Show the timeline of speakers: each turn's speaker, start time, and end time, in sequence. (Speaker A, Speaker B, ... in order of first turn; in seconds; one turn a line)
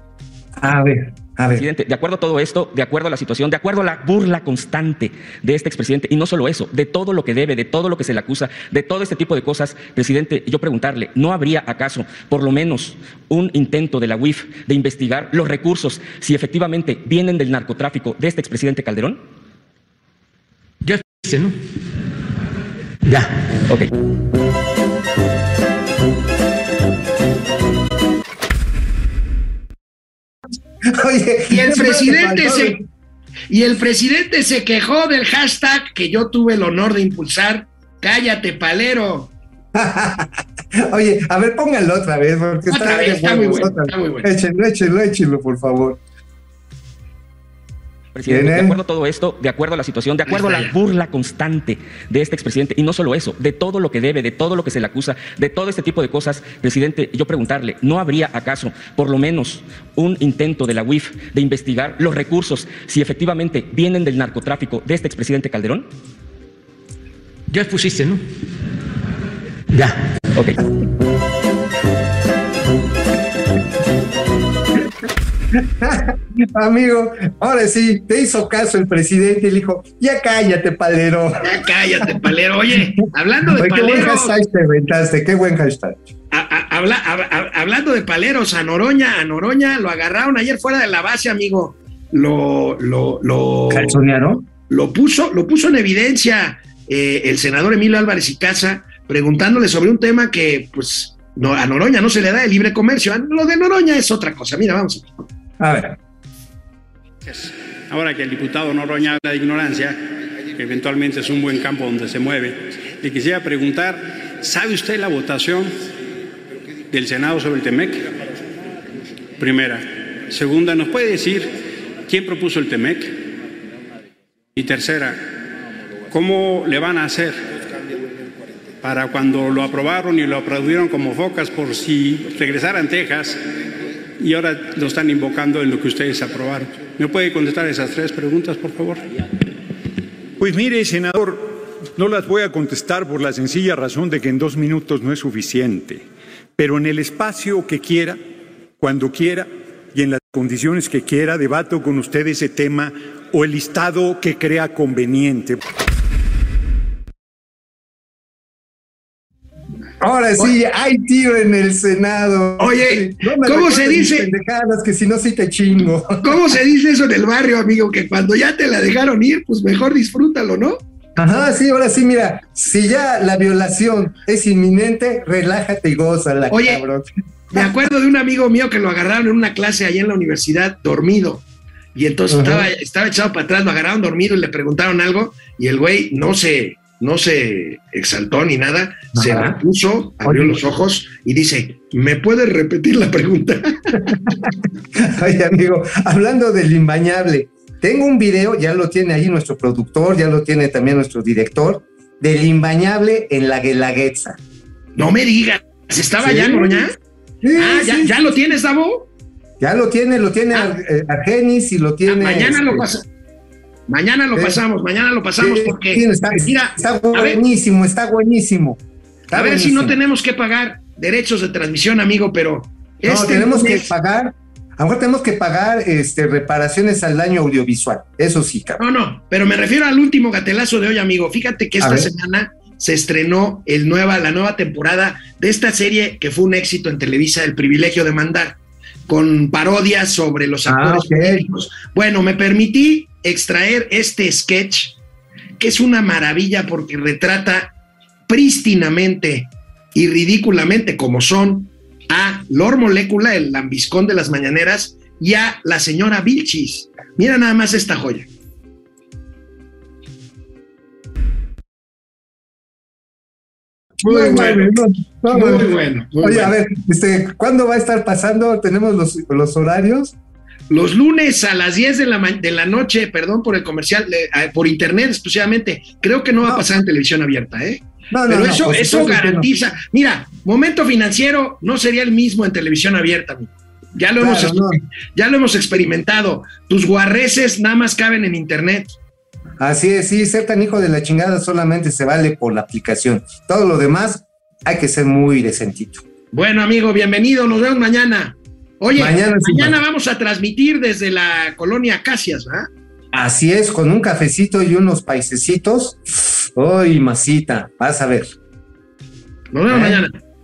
Speaker A: 0.6-1.6
Speaker B: 1.6-19.2
Speaker C: 20.8-21.5
Speaker C: 23.1-23.3
Speaker A: 30.9-32.8
Speaker D: 31.5-32.8
Speaker D: 33.5-39.3
Speaker A: 39.7-46.0
Speaker D: 42.7-44.3
Speaker B: 48.1-65.9
Speaker A: 48.3-48.8
Speaker D: 50.3-50.7
Speaker C: 67.5-68.2
Speaker C: 69.7-70.0
Speaker A: 75.5-81.5
Speaker D: 81.4-84.4
Speaker A: 83.5-86.0
Speaker D: 86.3-94.0
Speaker A: 93.7-94.5
Speaker D: 94.7-105.1
Speaker A: 105.6-106.0
Speaker E: 107.2-110.0
Speaker E: 110.5-115.8
Speaker E: 116.9-118.2
Speaker E: 119.4-121.5
Speaker E: 122.1-123.2
Speaker E: 124.5-125.2
Speaker E: 126.1-127.4
Speaker E: 128.8-133.4
Speaker E: 134.2-139.2
Speaker F: 140.4-146.0
Speaker F: 146.6-148.2
Speaker F: 148.8-155.6
Speaker A: 160.0-166.4
Speaker D: 162.6-164.3
Speaker D: 166.2-170.8
Speaker A: 171.2-177.7
Speaker D: 176.5-176.8
Speaker D: 177.5-194.2
Speaker A: 182.3-182.7
Speaker A: 189.2-189.6
Speaker A: 190.2-190.6
Speaker A: 194.4-204.4
Speaker D: 205.0-207.0
Speaker A: 206.2-208.2
Speaker D: 207.6-209.1
Speaker A: 209.6-212.8
Speaker D: 212.1-213.1
Speaker D: 213.9-217.4
Speaker A: 215.4-218.8
Speaker A: 219.3-220.0
Speaker D: 219.3-223.9
Speaker A: 223.1-228.8
Speaker D: 228.8-238.6
Speaker A: 231.8-232.1
Speaker D: 239.1-245.0
Speaker A: 240.7-241.5
Speaker D: 245.6-247.7
Speaker D: 248.3-258.3
Speaker D: 264.0-264.8
Speaker A: 264.0-270.1
Speaker D: 265.3-266.5
Speaker D: 270.7-289.0
Speaker A: 278.1-279.5
Speaker A: 284.2-284.8
Speaker A: 289.6-296.0
Speaker D: 296.3-302.7
Speaker A: 298.9-299.8
Speaker A: 303.1-308.3
Speaker D: 309.5-310.2
Speaker A: 309.7-310.0